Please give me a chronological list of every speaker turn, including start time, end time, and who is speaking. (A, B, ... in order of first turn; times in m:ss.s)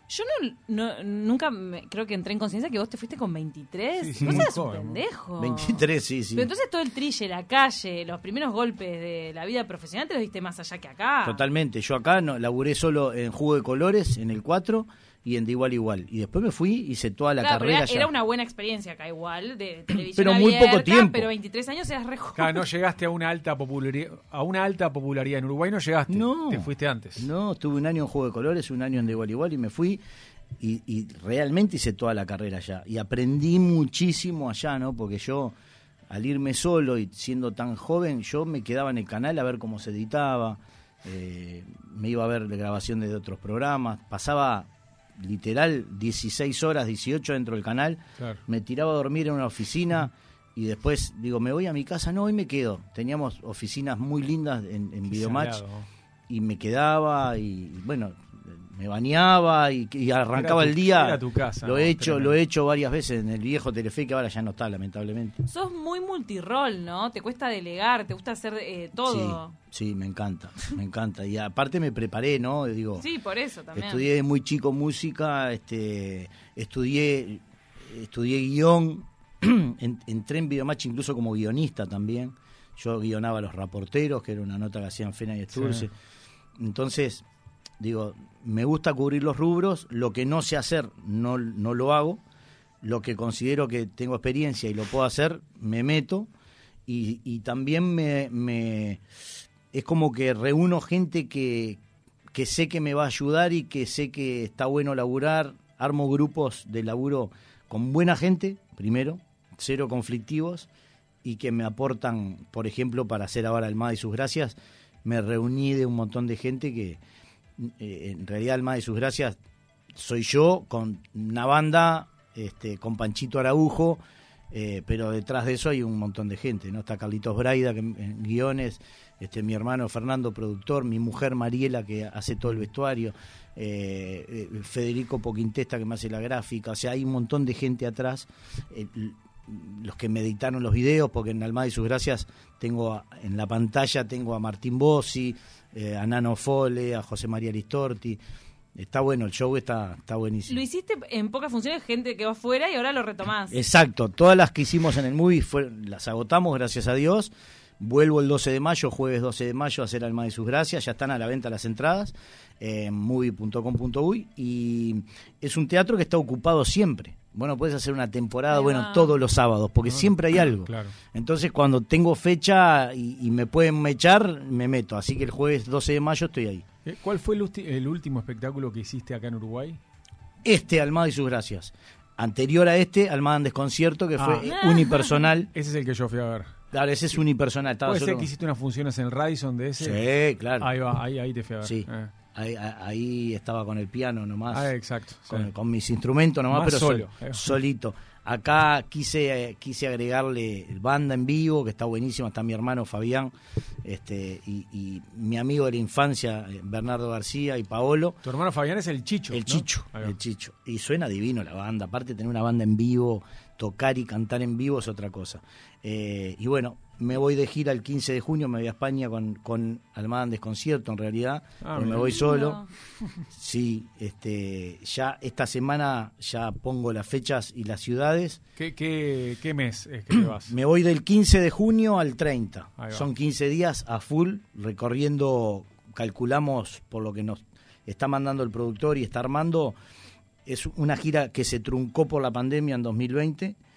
0:00.1-0:11.4 A
0:04.0-0:05.0 B
0:04.2-0:04.5 C
0:05.4-0:06.5 C
0:11.2-0:18.1 C
0:17.4-0:22.6 A
0:20.1-0:21.3 C
0:22.4-0:27.3 B
0:26.1-0:30.0 C
0:30.6-0:35.6 C
0:36.1-0:55.6 C
0:55.1-0:55.9 B
0:56.3-1:05.4 C
1:00.3-1:02.4 B
1:05.5-1:09.5 A
1:09.0-1:13.1 C
1:13.0-1:14.1 A
1:13.8-1:25.9 C
1:25.5-1:25.9 B
1:26.6-1:27.2 C
1:27.8-1:32.2 C
1:32.8-1:36.3 C
1:36.9-1:39.0 C
1:39.7-1:41.8 C
1:42.3-1:50.7 C
1:51.2-1:57.0 C
1:57.6-1:59.4 C
2:00.0-2:04.0 C
2:04.5-2:28.2 C
2:28.8-2:30.6 C
2:30.5-2:33.6 A
2:33.5-2:56.6 C
2:48.5-2:49.2 A
2:49.9-2:50.9 B
2:56.8-2:59.8 B
3:00.4-3:05.5 C
3:04.2-3:04.5 B
3:04.4-3:05.3 A
3:05.5-3:06.5 B
3:06.7-3:08.3 C
3:07.9-3:10.0 B
3:09.8-3:10.7 C
3:10.6-3:12.1 B
3:11.6-3:14.7 C
3:14.5-3:15.5 B
3:15.3-3:23.3 C
3:16.5-3:17.5 B
3:23.8-3:28.2 C
3:28.2-3:30.2 B
3:29.3-3:42.6 C
3:41.6-3:42.2 B
3:42.0-3:42.7 A
3:43.3-3:48.4 C
3:48.6-3:50.5 B
3:50.1-3:59.8 C
3:52.8-3:53.1 B
4:00.5-4:03.6 C